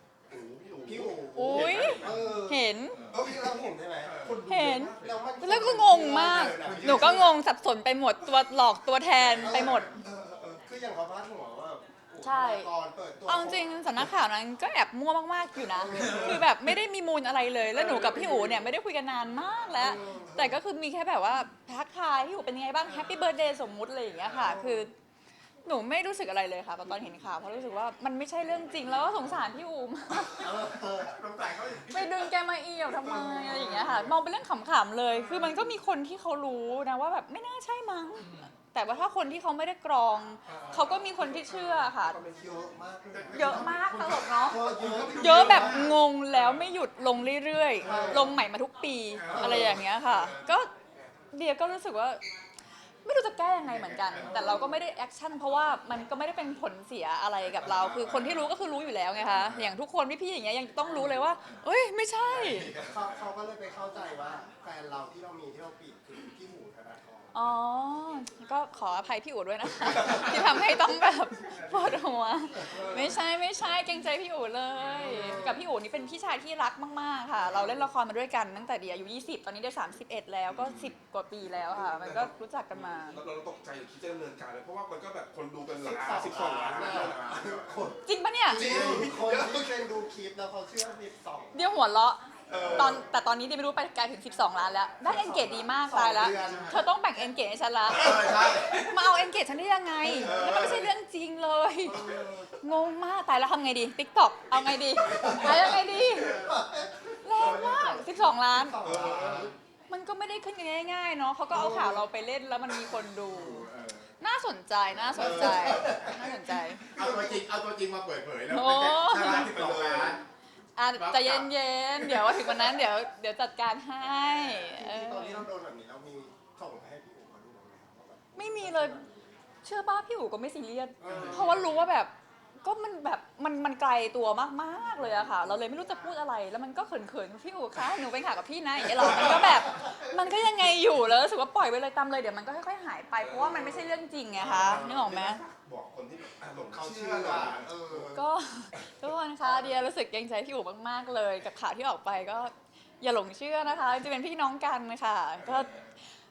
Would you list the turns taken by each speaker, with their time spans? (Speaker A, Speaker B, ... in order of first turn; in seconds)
Speaker A: 0.3-2.4, 4.2-5.2, 17.9-18.6, 40.7-42.9, 50.1-51.1, 69.8-70.8, 72.7-73.2, 75.0-75.4, 80.5-80.9, 81.5-87.9, 88.5-89.8, 92.5-93.0, 108.9-109.5, 119.3-120.2, 143.2-148.2
Speaker B: 0.8-4.4, 5.0-7.3, 9.4-14.1, 15.6-16.4, 19.8-20.6, 22.9-23.3, 24.3-24.9, 30.4-31.2, 33.0-34.1, 42.4-45.9, 47.8-48.4, 49.2-49.9, 54.2-54.8, 62.8-67.3, 75.2-75.7, 85.8-88.0, 88.5-91.6, 92.5-93.0, 95.0-96.8, 100.0-100.5, 101.9-102.5, 105.0-109.5, 111.5-112.0, 115.1-116.4, 116.9-117.4, 124.5-129.4, 131.0-131.7, 135.1-136.0, 139.1-140.1, 144.4-145.1, 146.7-148.2
Speaker C: 1.3-3.1, 4.4-10.0, 12.2-12.7, 13.2-24.9, 25.7-30.7, 31.9-42.2, 43.3-50.7, 51.3-52.2, 53.0-62.7, 67.3-83.2, 88.0-88.7, 91.5-102.0, 102.6-106.4, 107.2-108.8, 109.9-113.7, 114.2-116.9, 118.5-119.6, 120.8-125.5, 128.4-129.0, 129.6-132.1, 132.6-145.4, 148.1-155.9
Speaker D: 2.0-2.4, 2.9-3.3, 4.0-4.5, 6.5-7.4, 15.9-16.3, 30.5-32.2, 35.2-35.5, 38.2-38.5, 40.5-40.8, 43.1-46.7, 47.8-48.3, 49.2-50.4, 53.6-54.5, 57.5-58.5, 59.2-59.7, 62.3-63.2, 70.0-70.4, 71.4-72.0, 74.8-75.5, 87.2-87.5, 96.4-96.8, 97.9-98.9, 100.3-100.9, 104.5-106.6, 108.8-109.5, 113.2-114.1, 115.0-116.2, 116.8-120.2, 121.0-122.8, 131.1-131.9